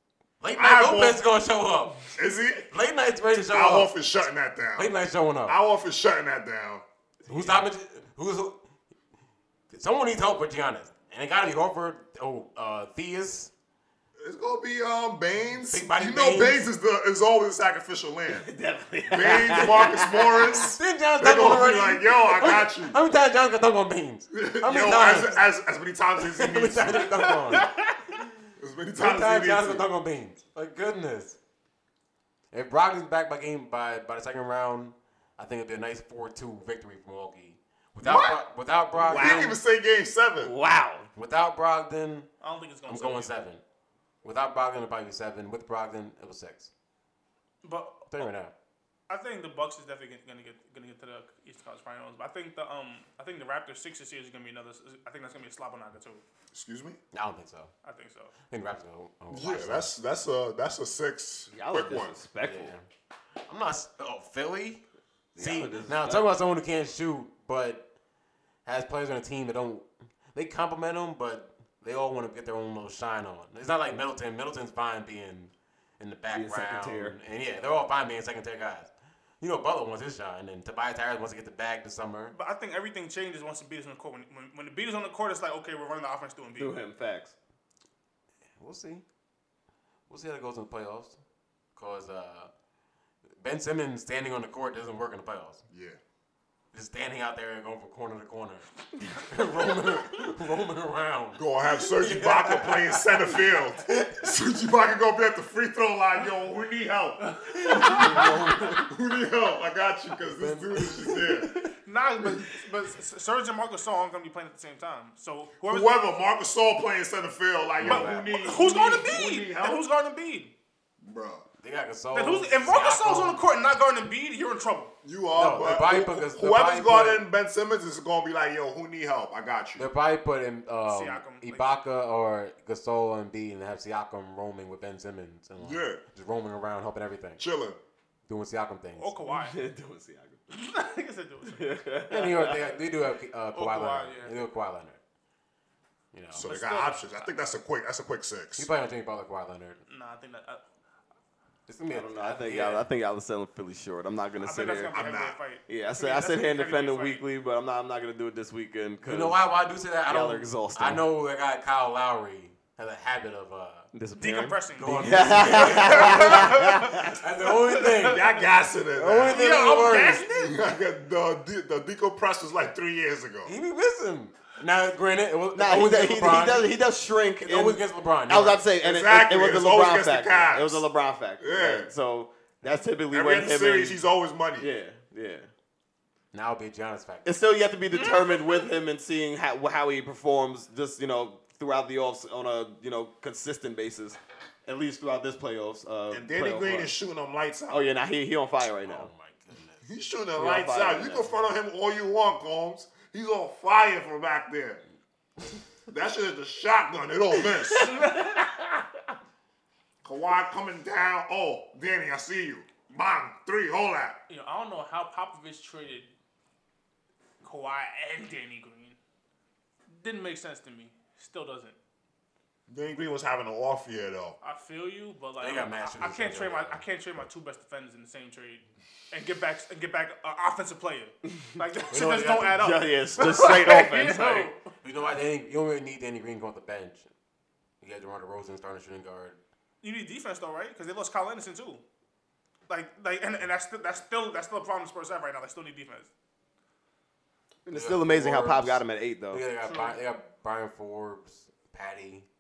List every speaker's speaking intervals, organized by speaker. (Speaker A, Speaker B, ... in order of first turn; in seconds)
Speaker A: 0.4-2.1, 2.7-3.9, 4.8-5.6, 7.3-8.6, 9.7-13.5, 15.6-16.7, 20.6-25.5, 26.3-28.3, 29.0-31.4, 32.5-39.6, 41.1-42.3, 42.9-43.6, 44.2-46.7, 48.1-48.5, 57.1-57.7, 58.5-59.9, 62.4-62.9, 63.5-64.8, 65.4-67.8, 68.7-82.3, 88.6-89.0, 90.1-91.2, 91.8-92.5, 93.4-95.7, 96.7-104.1, 107.7-108.9, 110.4-111.3, 117.8-118.5, 121.6-123.4, 125.4-127.3, 129.8-137.4, 138.3-139.1, 142.1-145.0, 146.1-146.5, 148.6-149.8, 151.7-152.9, 159.0-163.9, 164.8-168.3, 168.9-170.2, 173.4-176.7, 177.4-178.7, 186.3-187.4, 198.8-199.9, 225.4-226.8, 234.8-237.1, 237.8-239.4, 247.7-252.3
Speaker B: 0.6-1.2, 2.1-2.7, 3.5-4.9, 5.5-6.8, 14.2-18.5, 19.1-23.0, 24.3-27.4, 28.6-29.9, 38.0-38.4, 39.0-40.5, 56.5-57.0, 59.3-62.1, 95.7-96.0, 101.4-111.6, 115.7-119.8, 121.0-121.5, 125.0-129.9, 135.6-136.0, 137.4-137.8, 146.3-148.7, 154.9-155.4, 168.0-173.5, 178.8-180.9, 181.4-181.9, 183.1-184.7, 196.1-197.9, 199.8-204.8, 205.9-208.0, 210.0-214.2, 222.7-224.4
Speaker C: 7.3-7.6, 18.4-20.7, 39.1-39.4, 40.4-41.1, 61.5-62.7, 65.3-66.3, 76.3-77.2, 86.6-87.3, 139.3-140.4, 141.5-142.7, 151.9-155.0, 155.7-159.4, 160.1-161.0, 163.9-167.2, 175.6-184.0, 184.6-185.5, 187.2-196.9, 197.7-199.1, 200.4-201.3, 207.7-208.2, 231.9-234.5, 247.7-249.4
Speaker D: 27.5-28.0, 42.4-43.3, 47.6-48.3, 49.1-56.2, 57.8-58.3, 82.3-86.8, 107.2-108.3, 111.8-115.9, 117.8-120.5, 122.1-124.9, 130.9-131.7, 139.0-139.6, 140.5-141.8, 143.6-144.3, 146.4-147.3, 149.9-150.6, 154.4-157.2, 164.2-167.1, 167.8-168.2, 169.3-170.7, 187.9-188.7, 207.9-208.3, 214.3-216.1, 217.4-219.0, 219.9-221.8, 224.4-234.7, 239.8-241.8, 242.7-246.1, 249.6-250.0